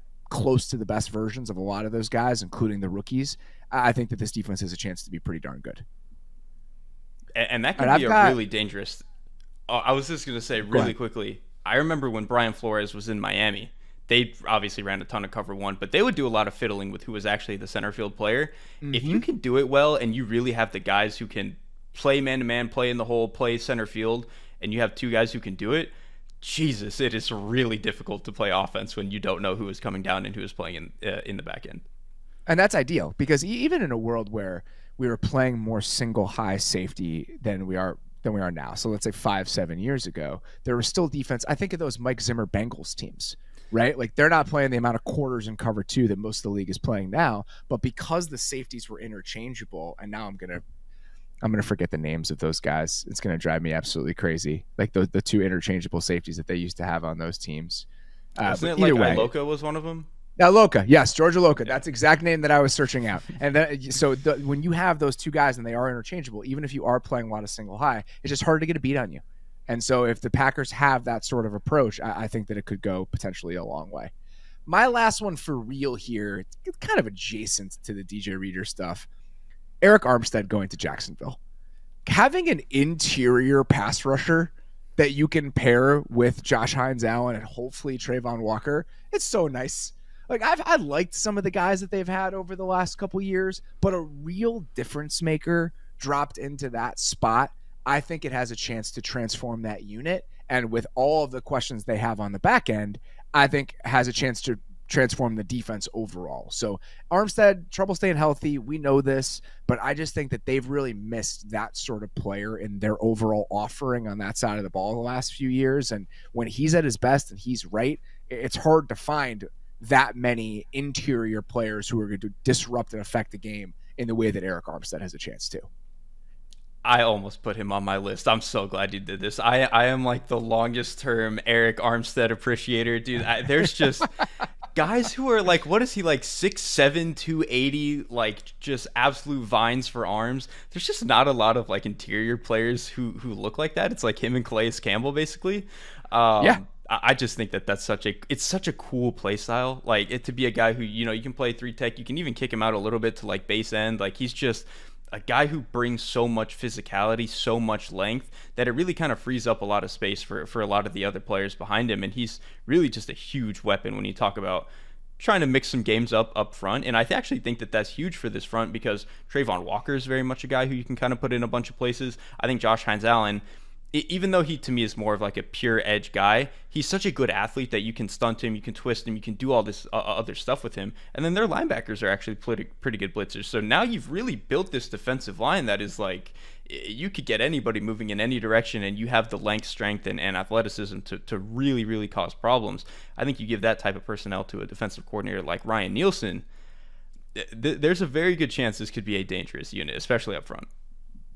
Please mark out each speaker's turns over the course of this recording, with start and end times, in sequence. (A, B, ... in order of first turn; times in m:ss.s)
0:00.3-0:05.8 A
0:07.3-0:09.0 B
0:07.8-0:08.4 A
0:09.7-0:31.8 B
0:18.8-0:19.2 A
0:32.5-0:50.6 A
0:51.4-0:59.3 A
0:58.4-1:00.1 B
1:00.4-1:14.1 A
1:14.7-1:19.1 A
1:19.8-1:21.4 A
1:22.0-2:05.7 A
2:06.8-2:14.1 B
2:14.7-2:53.4 B
2:53.9-3:16.4 B
3:17.3-3:20.7 B